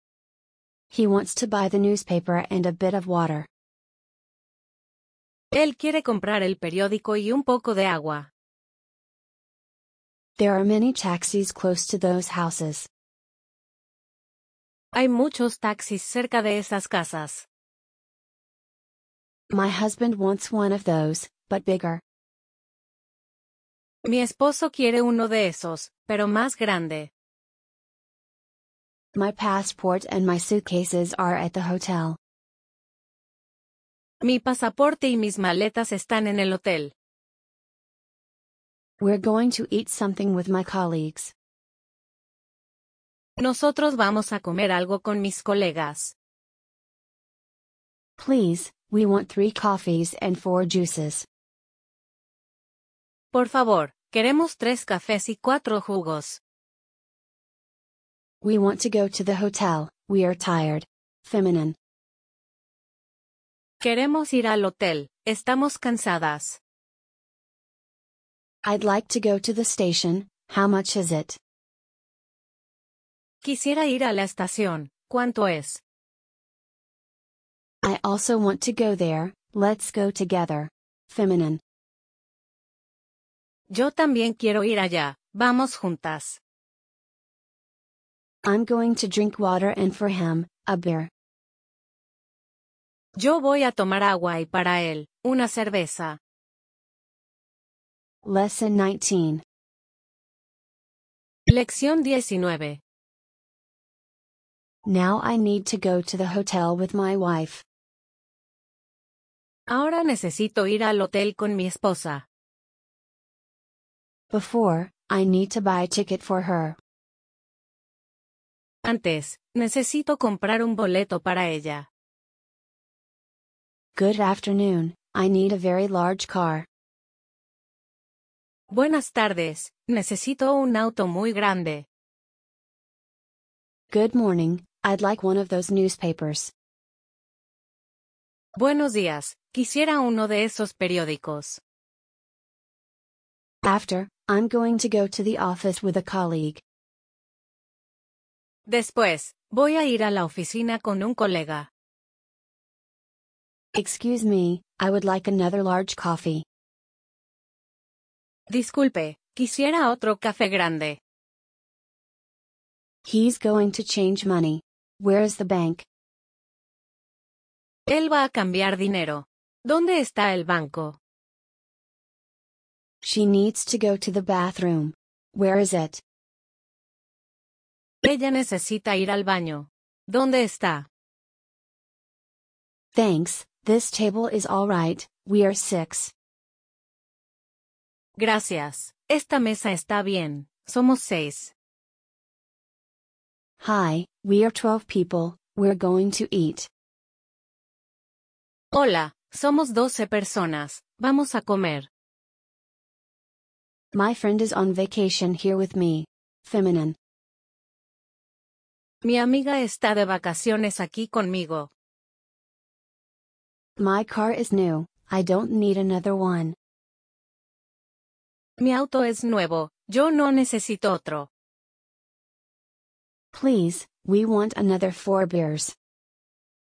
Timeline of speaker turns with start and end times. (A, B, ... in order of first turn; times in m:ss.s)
0:00.9-0:03.5 A
0:05.5-0:08.3 B
0:10.4-0:12.9 A
0:14.9-0:17.5 B
0:19.5-0:22.0 A
0:24.0-0:27.1 B
0:29.1-0:32.2 A
0:34.2-0:36.9 B
0:39.0-0:41.3 A
0:43.4-0:46.1 B
0:48.2-0:51.3 A
0:53.3-0:56.4 B
0:58.4-1:01.8 A
1:03.8-1:06.6 B
1:08.6-1:11.4 A
1:13.4-1:15.8 B
1:17.8-1:21.6 A
1:23.7-1:26.4 B
1:28.4-1:31.1 A
1:33.2-1:36.2 B
1:38.2-1:39.4 A
1:41.5-1:42.8 B
1:44.8-1:47.6 A
1:49.7-1:52.2 B
1:54.3-1:56.8 A
1:58.8-2:01.9 B
2:03.9-2:06.7 A
2:08.7-2:11.8 B
2:13.9-2:16.5 A
2:18.6-2:21.6 B
2:23.6-2:26.6 A
2:28.6-2:31.7 B
2:33.7-2:36.4 A
2:38.5-2:41.0 B
2:43.0-2:45.8 A
2:47.9-2:51.0 B
2:53.0-2:56.0 A
2:58.0-3:00.9 B
3:02.9-3:06.1 A
3:08.2-3:11.5 B
3:13.6-3:16.7 A
3:18.7-3:21.9 B
3:23.9-3:27.0 A
3:29.0-3:31.7 B
3:33.8-3:36.6 A
3:38.6-3:41.3 B
3:43.3-3:45.7 A